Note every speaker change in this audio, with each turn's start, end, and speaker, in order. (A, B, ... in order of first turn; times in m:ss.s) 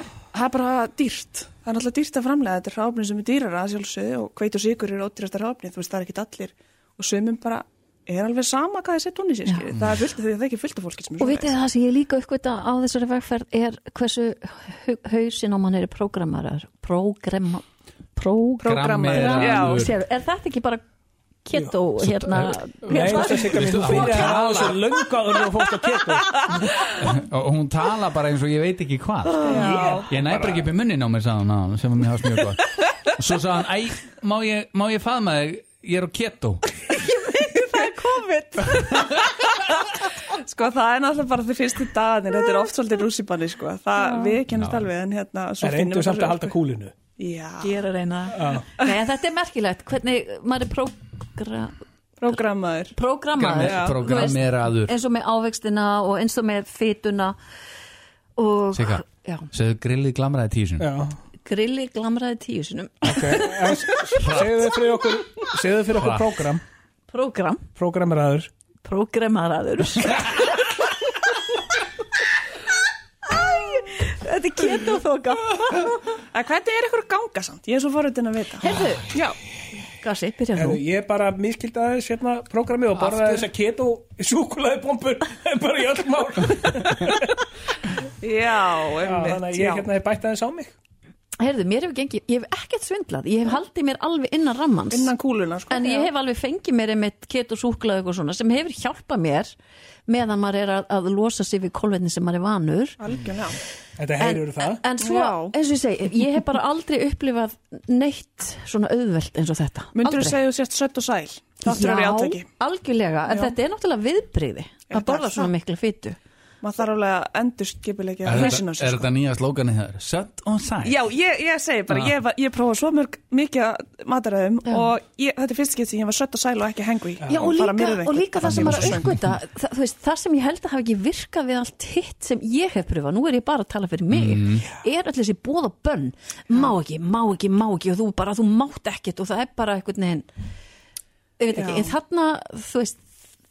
0:00.3-0:11.6 A
0:11.2-0:17.6 B
0:18.2-0:20.8 B
0:18.6-0:20.0 C
0:18.6-0:19.9 A
0:21.4-0:24.2 B
0:22.0-0:24.8 C
0:22.9-0:26.4 D
0:26.9-0:36.8 C
0:29.4-0:29.9 B
0:29.4-0:30.0 A
0:29.6-0:30.6 D
0:36.9-0:39.2 B
0:40.4-0:46.5 A
0:44.0-0:44.3 B
0:44.5-0:44.9 C
0:45.6-0:46.9 D
0:47.2-0:47.8 A
0:47.6-0:51.7 B
0:48.3-0:48.6 D
0:48.5-0:48.9 A
0:52.2-0:52.9 A
0:53.0-0:57.4 B
0:53.4-0:54.9 C
0:53.6-0:54.0 A
0:58.4-0:59.5 B
0:58.7-1:00.9 C
1:00.8-1:01.2 D
1:01.4-1:04.0 B
1:03.0-1:06.6 D
1:04.1-1:04.7 C
1:05.9-1:06.2 C
1:07.1-1:07.6 B
1:07.8-1:08.5 D
1:08.8-1:10.8 B
1:13.3-1:16.1 B
1:16.3-1:19.4 A
1:18.6-1:19.1 B
1:20.0-1:20.8 B
1:20.5-1:27.4 D
1:28.2-1:29.9 A
1:29.0-1:30.7 D
1:31.4-1:35.1 B
1:34.9-1:36.1 A
1:35.7-1:39.5 B
1:40.1-1:43.0 B
1:43.0-1:43.6 A
1:44.0-1:44.8 D
1:44.2-1:50.4 B
1:45.0-1:45.5 A
1:49.9-1:52.4 A
1:51.6-1:56.2 B
1:53.3-1:53.6 A
1:54.9-1:55.5 A
1:56.6-1:59.1 A
1:58.2-2:01.0 C
2:00.8-2:09.1 A
2:07.2-2:07.5 D
2:07.3-2:20.2 B
2:08.4-2:09.0 C
2:14.1-2:14.6 C
2:21.4-2:23.0 B
2:21.5-2:21.9 A